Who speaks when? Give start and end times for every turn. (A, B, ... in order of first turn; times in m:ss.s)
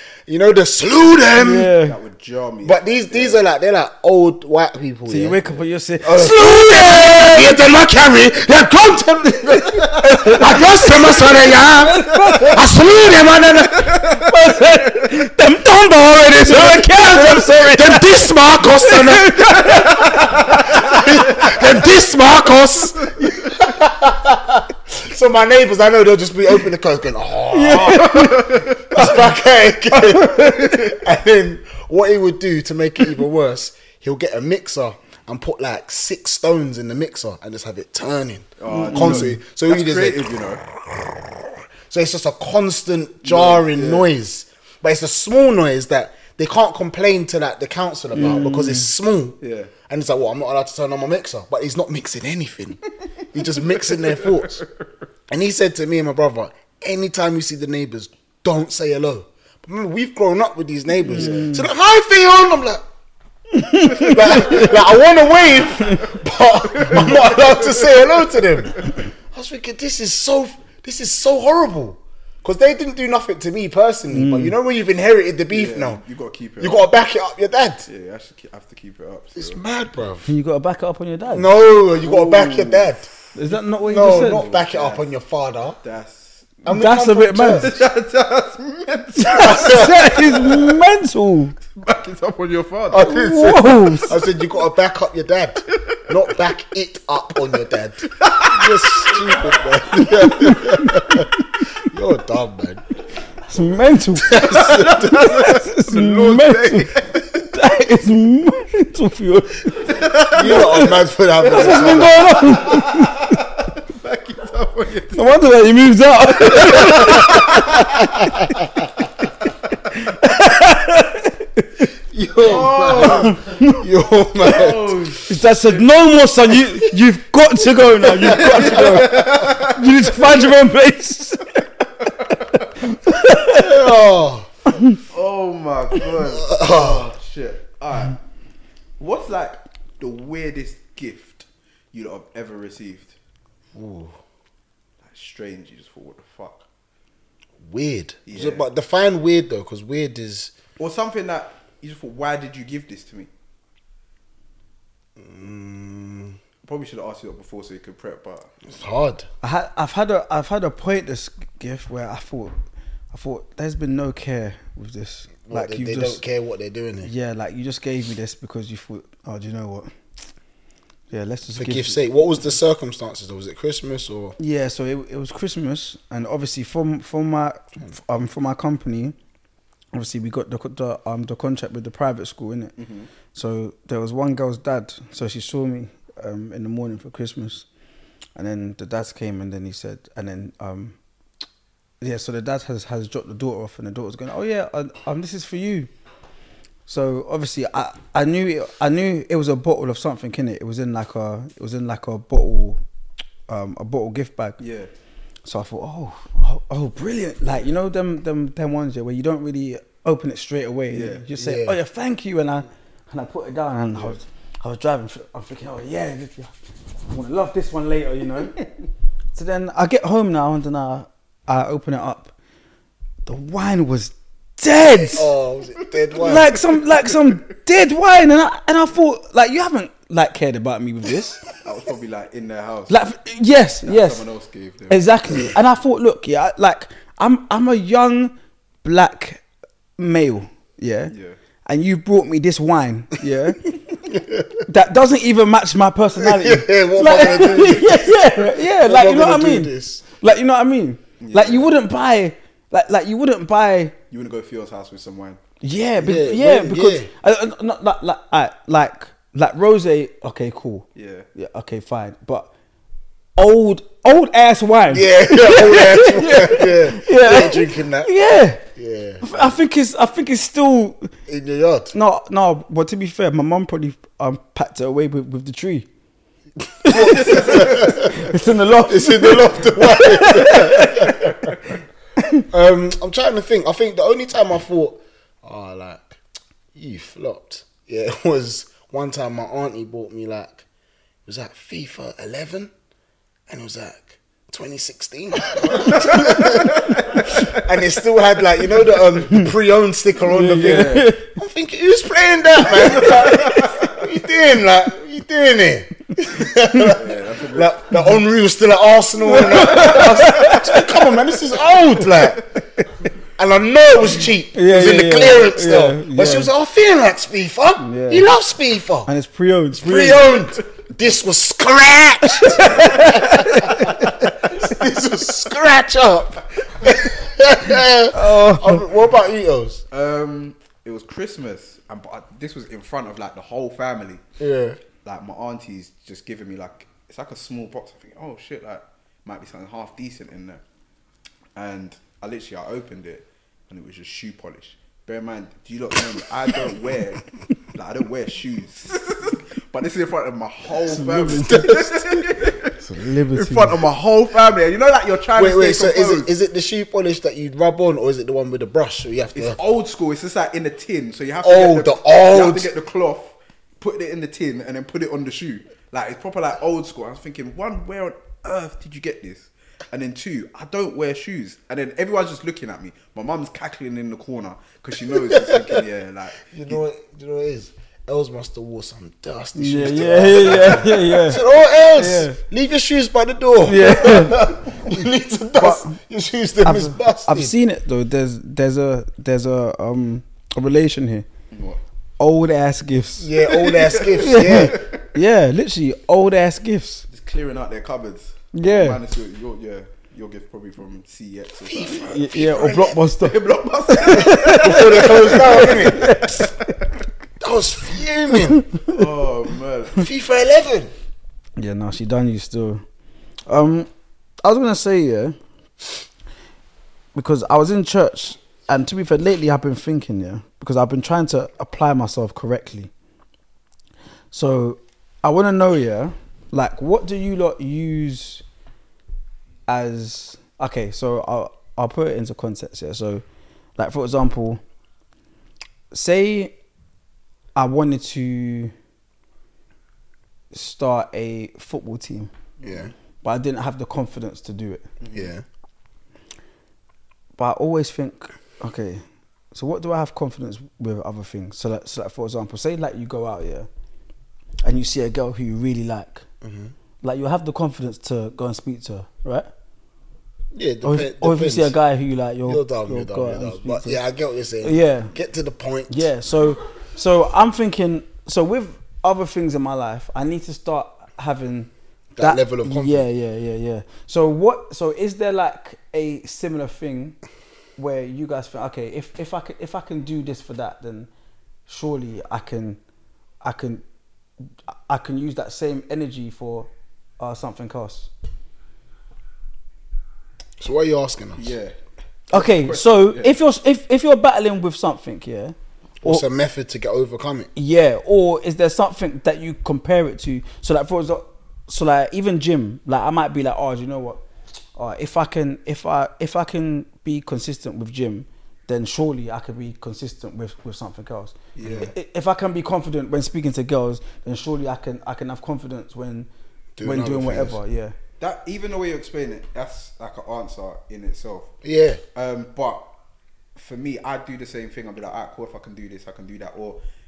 0:00.3-0:01.7 A
0:01.4-0:02.0 B
0:01.7-0:03.4 C
0:02.6-0:05.4 A
0:05.1-0:07.6 B
0:05.5-0:07.2 C
0:06.9-0:13.9 A
0:09.8-0:12.6 B
0:13.7-0:14.3 C
0:14.2-0:21.6 B
0:16.4-0:52.8 A
0:19.8-0:21.6 C
0:27.5-0:29.2 B
0:27.7-0:28.9 C
0:30.0-0:30.6 B
0:38.6-0:40.6 C
0:38.7-0:39.4 B
0:43.2-0:44.1 C
0:48.1-0:48.9 B
0:49.4-0:49.7 C
0:53.3-0:54.6 A
0:53.6-0:54.7 C
0:55.3-1:02.8 A
1:01.0-1:01.7 B
1:03.5-1:04.7 B
1:03.9-1:16.0 A
1:04.1-1:04.6 C
1:06.6-1:08.1 C
1:14.1-1:14.5 B
1:15.5-1:16.9 C
1:16.6-1:17.8 A
1:17.9-1:19.6 C
1:19.3-1:20.3 A
1:20.2-1:21.5 B
1:21.3-1:23.0 A
1:22.0-1:23.1 C
1:23.3-1:24.4 B
1:23.8-1:25.8 A
1:24.1-1:25.0 C
1:25.8-1:26.5 C
1:26.6-1:27.7 A
1:26.7-1:27.7 B
1:27.6-1:30.7 C
1:29.2-1:31.5 B
1:29.3-1:30.2 A
1:31.7-1:33.0 C
1:32.9-1:42.8 A
1:33.0-1:34.2 B
1:38.1-1:39.3 C
1:39.9-1:41.7 B
1:43.4-1:50.6 B
1:44.2-1:45.2 A
1:44.3-1:47.4 C
1:49.8-1:55.4 C
1:50.3-1:52.6 A
1:51.5-1:53.3 B
1:55.1-1:58.5 B
1:56.5-1:57.9 C
1:59.9-2:01.6 B
2:02.1-2:05.2 A
2:02.4-2:03.4 C
2:03.0-2:03.8 B
2:04.4-2:05.8 C
2:05.3-2:11.5 B
2:08.0-2:09.3 A
2:08.2-2:10.0 C
2:12.8-2:13.8 B
2:13.5-2:14.5 A
2:15.1-2:18.2 C
2:16.3-2:17.1 A
2:19.0-2:23.2 C
2:23.7-2:24.2 A
2:25.0-2:26.6 C
2:27.6-2:30.5 A
2:28.2-2:28.6 C
2:30.8-2:33.3 C
2:35.2-2:36.4 A
2:36.6-2:38.5 C
2:38.6-2:39.3 A
2:39.4-2:42.6 B
2:43.1-2:46.2 B
2:45.4-2:47.1 A
2:47.0-2:49.9 B
2:51.1-2:52.0 B
2:51.5-2:54.4 A
2:54.4-2:59.1 B
2:59.9-3:02.7 B
3:02.8-3:03.1 C
3:03.3-3:07.6 B
3:08.4-3:11.0 B
3:12.0-3:15.9 B
3:16.9-3:22.8 B
3:23.5-3:24.6 B
3:24.6-3:24.9 C
3:25.4-3:36.5 B
3:30.9-3:31.3 C
3:31.4-3:31.8 A
3:33.9-3:34.2 C
3:37.0-3:38.6 B
3:39.3-3:42.3 B
3:43.2-3:45.3 B
3:44.9-3:46.5 A
3:46.2-3:51.4 B
3:51.6-3:52.9 C
3:52.9-3:54.2 B
3:53.8-3:55.0 C
3:54.9-3:59.4 B
4:00.0-4:01.1 B
4:01.1-4:01.4 C
4:01.6-4:03.7 B
4:04.1-4:04.6 A
4:04.7-4:13.9 B
4:06.2-4:10.0 A
4:11.2-4:11.7 C
4:14.1-4:15.4 C
4:15.6-4:22.5 B
4:16.0-4:17.1 A
4:20.9-4:21.2 C
4:23.4-4:28.6 B
4:24.9-4:28.1 A
4:28.8-4:29.3 A
4:29.2-4:31.1 B
4:31.3-4:31.9 A
4:31.9-4:35.9 B
4:36.8-4:41.3 B
4:36.8-4:38.3 A
4:36.9-4:38.2 C
4:38.9-4:41.6 A
4:42.5-4:46.2 A
4:46.7-4:50.6 A
4:51.2-4:52.7 A
4:53.5-5:12.4 A
4:55.5-4:57.7 C
5:00.2-5:01.2 B
5:00.5-5:01.1 C
5:02.7-5:04.0 C
5:06.6-5:06.9 B
5:06.9-5:07.8 C
5:09.2-5:11.0 B
5:13.4-5:19.1 A
5:14.5-5:16.5 B
5:17.8-5:18.3 B
5:19.0-5:20.3 B
5:19.7-5:29.8 A
5:22.4-5:24.3 B
5:28.1-5:28.8 B
5:29.9-5:34.2 C
5:34.4-5:34.8 A
5:35.0-5:40.6 C
5:41.6-5:47.2 C
5:47.7-5:56.3 C
5:50.8-5:51.9 B
5:51.5-5:51.9 A
5:52.8-5:53.8 B
5:55.4-5:59.6 A
5:59.3-6:16.7 C
6:01.4-6:02.7 A
6:15.1-6:15.8 A
6:16.4-6:27.5 A
6:19.6-6:21.4 B
6:22.0-6:22.4 B
6:23.6-6:24.7 B
6:25.6-6:26.0 B
6:26.6-6:31.3 B
6:31.5-6:31.8 C
6:32.2-6:33.3 B
6:33.2-6:34.8 A
6:33.4-6:35.0 C
6:34.2-6:37.0 B
6:37.1-6:42.1 C
6:38.5-6:39.0 B
6:41.6-6:43.0 A
6:42.0-6:43.4 B
6:43.2-6:46.1 C
6:44.0-6:46.5 B
6:44.2-6:46.1 A
6:47.4-6:48.7 A
6:48.5-6:48.9 B
6:48.8-6:50.1 C
6:50.0-6:50.9 A
6:51.6-6:52.8 B
6:53.5-6:53.9 B
6:54.4-6:55.4 B
6:57.1-7:02.9 B
7:04.3-7:08.4 B
7:09.7-7:13.2 B
7:13.8-7:14.6 B
7:15.9-7:16.5 B
7:17.5-7:18.7 B
7:20.5-7:22.3 B
7:22.6-7:22.9 C
7:22.6-7:22.9 A
7:23.2-7:24.9 B
7:25.0-7:25.3 C
7:25.1-7:25.4 A
7:27.4-7:33.7 B
7:34.6-7:36.2 B
7:36.4-7:36.7 A
7:37.0-7:39.5 B
7:40.5-7:41.8 A
7:40.8-7:44.0 B
7:42.4-7:46.1 A
7:44.6-7:45.1 B
7:45.9-7:57.2 B
7:52.1-7:53.0 A
7:57.8-8:01.1 B
8:01.7-8:02.8 B
8:03.4-8:03.8 B
8:04.7-8:08.1 B
8:10.6-8:11.5 A
8:11.4-8:11.7 C
8:12.3-8:13.3 C
8:12.3-8:16.2 B
8:16.0-8:17.5 A
8:17.5-8:24.2 B
8:24.8-8:36.3 B
8:31.5-8:31.9 C
8:31.6-8:31.9 A
8:36.8-8:37.6 A
8:36.8-8:37.9 B
8:38.2-8:41.5 C
8:41.6-8:42.0 A
8:42.1-8:42.8 C
8:43.6-8:46.8 C